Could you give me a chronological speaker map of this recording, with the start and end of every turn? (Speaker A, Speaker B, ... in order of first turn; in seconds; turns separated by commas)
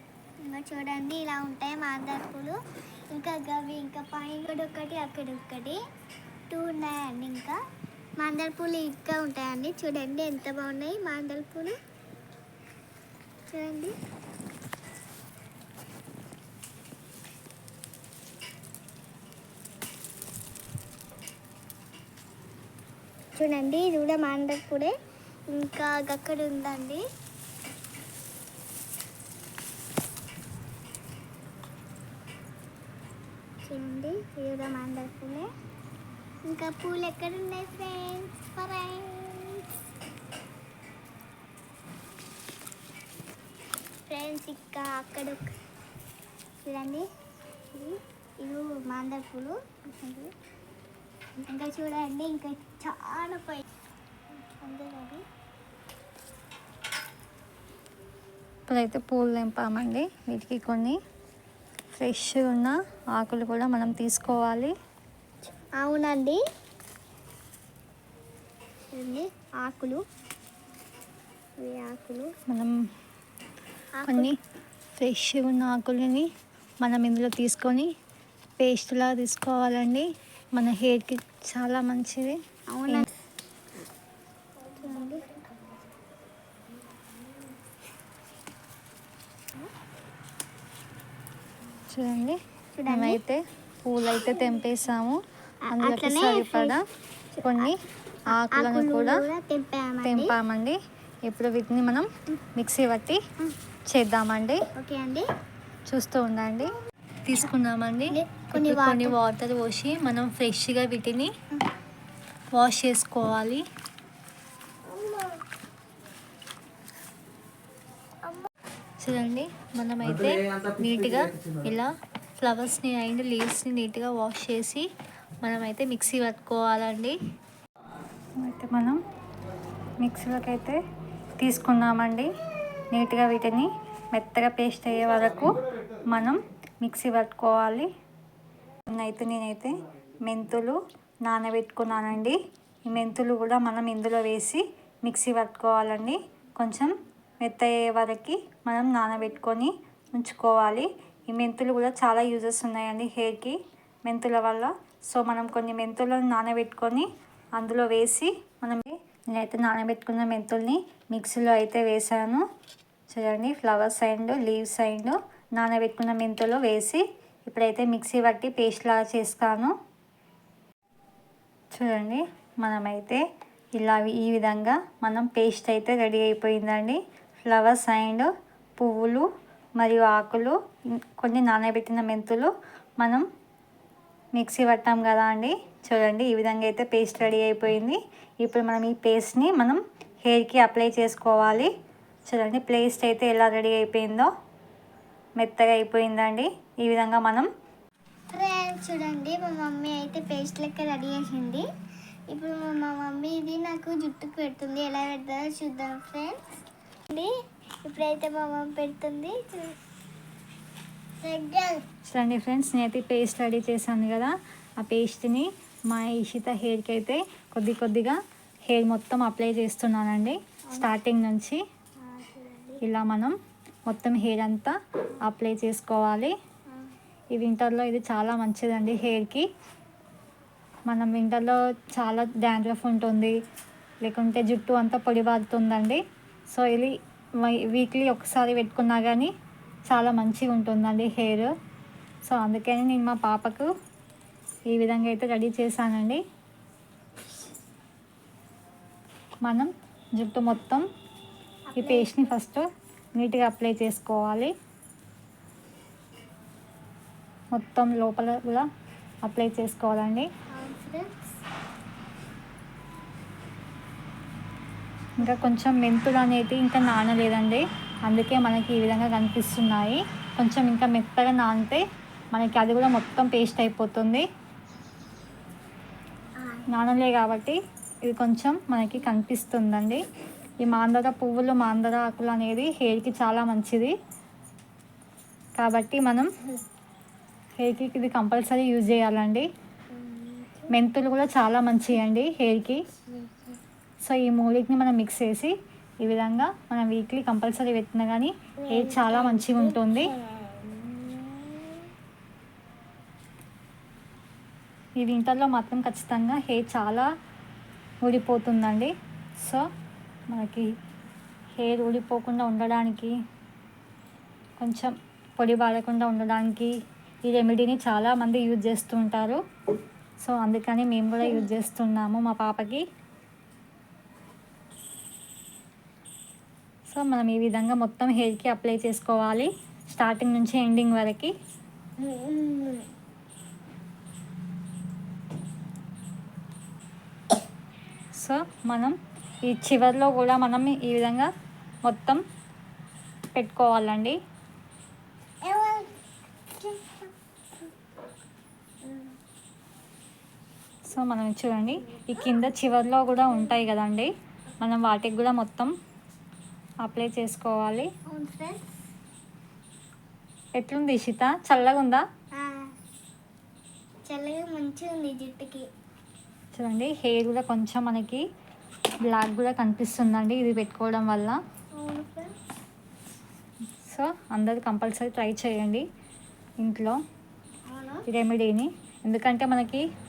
Speaker A: 0.4-2.6, Speaker A: 3.1-5.8, Speaker A: 6.5-7.6, Speaker A: 8.2-11.8, Speaker A: 13.5-13.9, Speaker A: 23.4-24.9, Speaker A: 25.5-27.0, Speaker A: 33.6-35.5, Speaker A: 36.5-39.7, Speaker A: 44.1-45.5, Speaker A: 46.6-47.1, Speaker A: 47.7-50.3, Speaker A: 51.5-53.6, Speaker A: 54.4-55.2, Speaker B: 58.7-61.0, Speaker B: 62.0-64.7, Speaker A: 65.8-66.4, Speaker A: 68.9-70.0, Speaker A: 71.6-72.3, Speaker B: 72.5-72.8, Speaker A: 74.0-74.3, Speaker B: 74.1-74.3, Speaker B: 75.0-76.3, Speaker B: 76.8-77.9, Speaker B: 78.6-83.1, Speaker A: 82.7-83.1, Speaker A: 84.7-85.4, Speaker B: 91.9-96.8, Speaker A: 92.8-93.2, Speaker A: 95.7-96.8, Speaker A: 97.3-97.7, Speaker B: 97.4-97.8, Speaker B: 98.3-99.2, Speaker A: 98.3-100.3, Speaker B: 100.0-103.2, Speaker B: 103.9-104.6, Speaker A: 104.8-105.2, Speaker B: 105.9-111.3, Speaker A: 108.1-109.2, Speaker B: 112.5-113.6, Speaker A: 114.9-115.4, Speaker B: 119.0-124.9, Speaker B: 125.4-127.2, Speaker B: 128.4-129.0, Speaker B: 130.0-130.8, Speaker B: 131.4-132.3, Speaker B: 132.9-137.9, Speaker B: 138.9-146.9, Speaker B: 147.4-162.4, Speaker B: 163.1-169.7, Speaker B: 171.8-173.2, Speaker B: 173.8-179.3, Speaker B: 179.8-180.6, Speaker B: 181.2-183.2, Speaker B: 184.3-191.7, Speaker B: 192.3-194.3, Speaker B: 195.4-197.5, Speaker A: 198.3-201.7, Speaker A: 202.3-206.5, Speaker A: 207.8-209.8, Speaker A: 211.2-211.8, Speaker B: 212.1-221.6, Speaker A: 220.7-220.9, Speaker A: 222.0-222.8, Speaker B: 222.8-223.4, Speaker B: 223.9-226.3, Speaker B: 227.3-229.5, Speaker B: 230.9-233.3, Speaker B: 234.0-239.3, Speaker B: 239.9-241.5, Speaker B: 242.3-243.7, Speaker B: 244.7-246.2, Speaker B: 249.4-250.9, Speaker A: 251.7-252.1, Speaker B: 251.8-254.5, Speaker B: 257.5-258.7, Speaker B: 259.2-260.3, Speaker A: 260.5-261.4, Speaker B: 265.2-271.8, Speaker B: 272.3-274.3, Speaker A: 276.4-276.7, Speaker B: 276.7-280.0, Speaker B: 280.6-283.9, Speaker B: 285.6-286.3, Speaker B: 287.6-289.5, Speaker A: 289.9-290.7, Speaker B: 290.7-292.8, Speaker A: 293.1-293.6, Speaker B: 294.1-300.1, Speaker A: 298.6-301.8, Speaker B: 305.0-307.1, Speaker B: 308.0-309.6, Speaker B: 310.3-310.7, Speaker B: 311.6-313.2, Speaker B: 314.6-319.4, Speaker B: 320.2-322.8, Speaker A: 321.2-321.5, Speaker B: 326.9-331.3, Speaker A: 332.0-332.9, Speaker B: 338.1-341.3, Speaker B: 341.9-342.2, Speaker B: 343.4-344.2, Speaker A: 345.4-346.0, Speaker A: 346.6-347.1, Speaker A: 348.8-349.1, Speaker B: 350.9-355.7, Speaker A: 351.9-352.3, Speaker A: 353.3-353.6, Speaker B: 356.8-357.9, Speaker A: 358.1-358.7, Speaker B: 360.6-362.0, Speaker A: 362.3-362.7, Speaker A: 364.1-365.7, Speaker B: 366.6-368.2, Speaker B: 369.1-371.4, Speaker A: 371.7-372.3, Speaker B: 373.8-375.9, Speaker B: 376.6-377.0, Speaker A: 377.7-378.1, Speaker B: 378.1-379.9